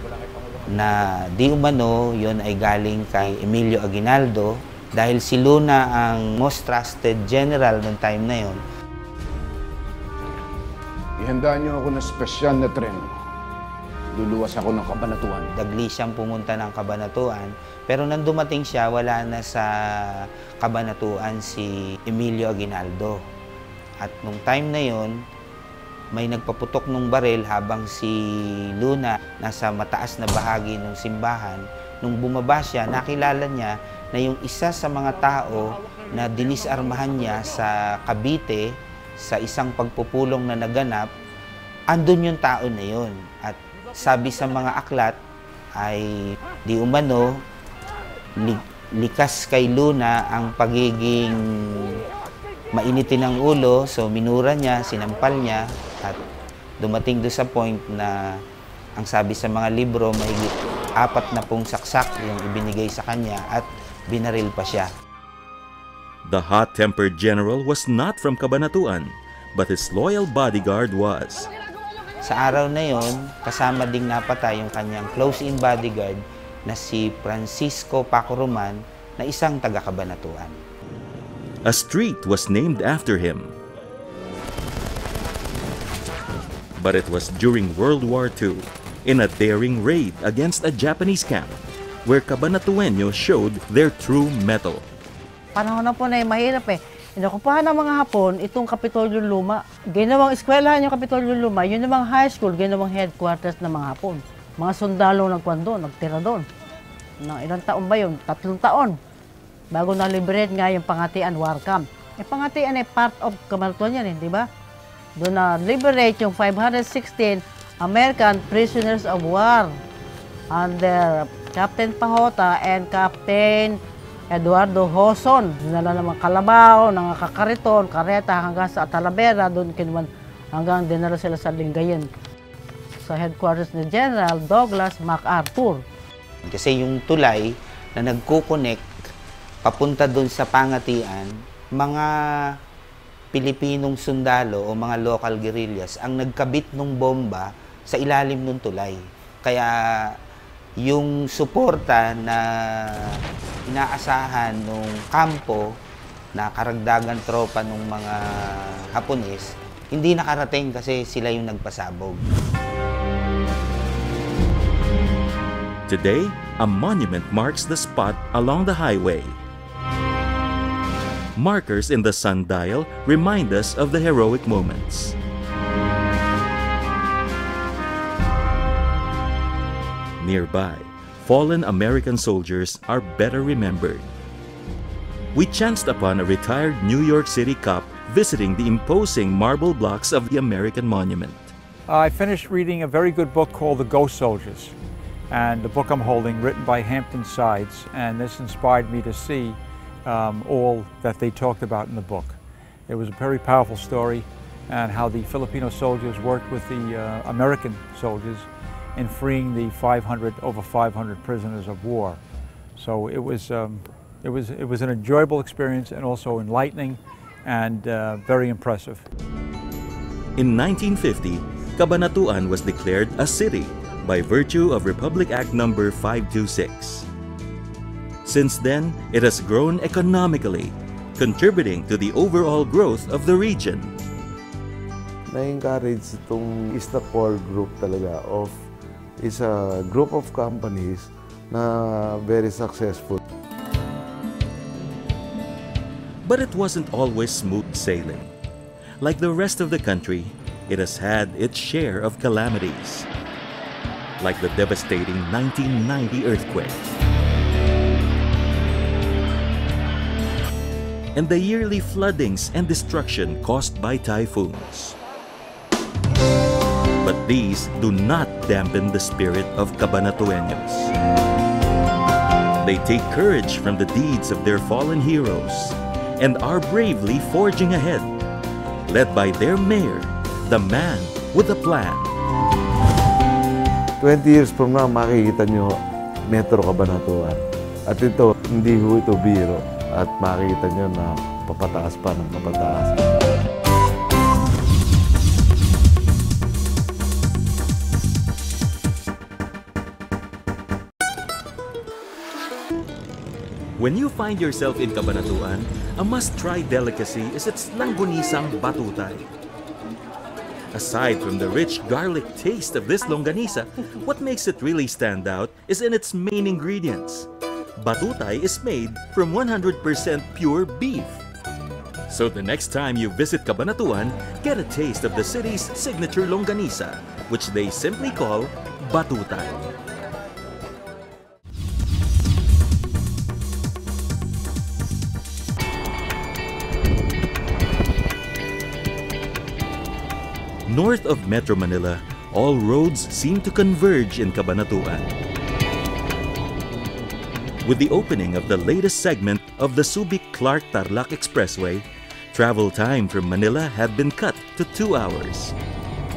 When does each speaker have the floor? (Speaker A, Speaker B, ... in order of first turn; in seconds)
Speaker A: 0.7-8.6, 15.6-23.2, 24.0-25.2, 26.1-41.1, 41.9-45.2, 45.8-47.4, 48.4-52.0, 52.7-56.2, 56.8-58.4, 59.0-64.9, 72.2-80.6, 136.5-138.9, 139.7-142.5, 143.3-150.2, 150.8-153.2, 153.7-155.8, 156.3-162.2
Speaker B: 11.2-13.2, 14.2-15.5
Speaker C: 66.2-71.5, 81.7-83.5, 86.8-94.8, 165.9-169.4, 171.4-175.2, 180.2-184.1, 185.3-191.5, 220.4-227.1, 228.2-233.9, 246.2-248.3, 249.0-253.1, 254.2-256.8, 261.1-265.0, 267.0-270.9, 272.6-278.1, 278.9-282.1, 303.8-309.3, 310.7-317.3, 317.8-321.2, 322.1-329.7, 340.7-345.1, 347.6-355.6
Speaker D: 95.6-106.5, 107.2-109.0, 109.7-114.5, 115.2-119.8, 120.5-123.8, 124.3-132.1, 133.0-135.8
Speaker E: 191.9-194.8, 195.3-212.2, 212.8-219.1
Speaker F: 235.3-238.7, 239.2-243.2, 284.0-292.9